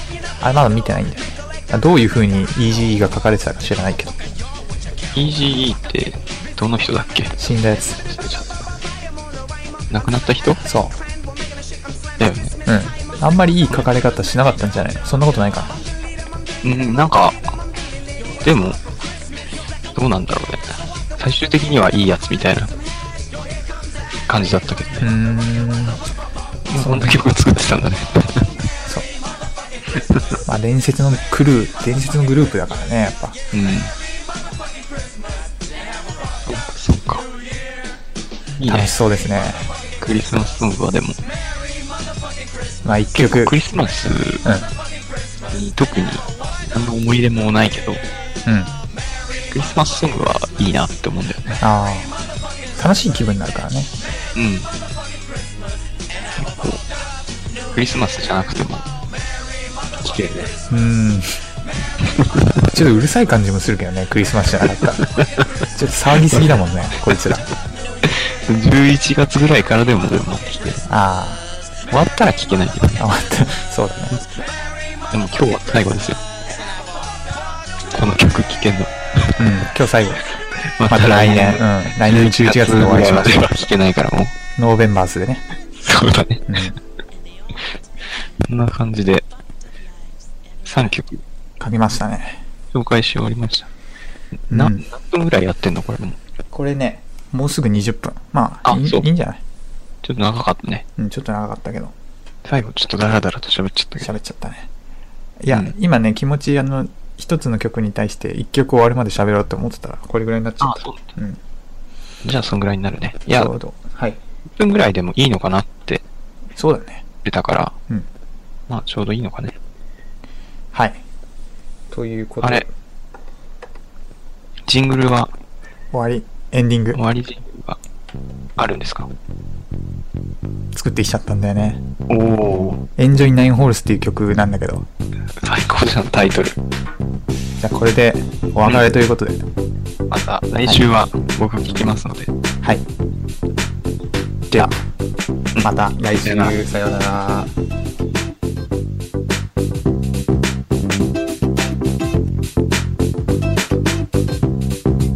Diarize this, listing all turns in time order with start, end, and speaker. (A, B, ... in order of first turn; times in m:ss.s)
0:00.4-0:04.4 A
0:05.1-0:07.4 B
0:07.4-0:08.0 A
0:08.0-0:08.7 B
0:09.9-0:10.6 B
0:10.6-0:11.0 A
0:12.2-0:12.5 B
0:12.7-0:15.8 A
0:16.6-0:17.6 B
0:18.4-0:18.8 B
0:19.9-0:22.7 B
0:24.3-0:25.1 B
0:25.0-0:26.0 A
0:26.7-0:28.5 B
0:26.7-0:27.2 A
0:30.1-0:30.4 B
0:30.5-0:33.4 A
0:33.5-0:33.9 B
0:36.5-0:37.2 B
0:38.6-0:38.9 B
0:38.7-0:39.7 A
0:40.0-0:41.2 B
0:42.8-0:43.6 A
0:43.1-0:44.4 B
0:44.4-0:44.7 A
0:45.5-0:48.0 B
0:48.5-0:48.7 A
0:49.5-0:51.6 B
0:51.6-0:52.2 A
0:52.8-0:53.9 A
0:54.4-0:54.7 B
0:56.4-0:56.8 B
0:57.7-0:58.9 B
1:00.0-1:00.6 B
1:00.7-1:01.4 A
1:02.6-1:05.0 A
1:05.2-1:05.5 B
1:05.7-1:07.5 A
1:08.0-1:10.8 B
1:10.9-1:11.4 A
1:11.9-1:13.0 B
1:13.0-1:14.2 A
1:15.1-1:16.2 B
1:17.9-1:19.4 B
1:19.4-1:23.7 A
1:20.6-1:24.3 B
1:24.6-1:25.4 A
1:25.8-1:26.6 B
1:26.5-1:26.8 A
1:28.5-1:29.2 B
1:30.6-1:31.2 B
1:31.6-1:32.4 A
1:32.7-1:33.7 B
1:34.5-1:36.2 B
1:34.5-1:34.8 A
1:36.5-1:39.4 A
1:38.6-1:39.1 B
1:40.0-1:40.8 B
1:41.0-1:41.9 A
1:42.4-1:44.1 B
1:44.0-1:44.7 A
1:45.4-1:51.4 A
1:45.5-1:45.8 B
1:50.6-1:51.0 B
1:52.2-1:53.5 B
1:53.3-1:54.2 A
1:54.6-1:56.0 B
1:56.6-1:57.0 A
1:57.2-1:57.7 B
1:58.7-1:59.6 B
2:00.7-2:01.0 A
2:01.9-2:02.7 A
2:02.4-2:02.7 B
2:04.7-2:05.3 B
2:05.9-2:07.0 A
2:06.9-2:07.8 B
2:08.6-2:09.1 B
2:10.7-2:11.8 A
2:12.1-2:12.9 B
2:13.0-2:14.9 A
2:15.4-2:16.6 B
2:17.6-2:19.4 A
2:18.6-2:19.0 B
2:20.1-2:22.3 B
2:25.6-2:27.5 A
2:26.2-2:26.6 B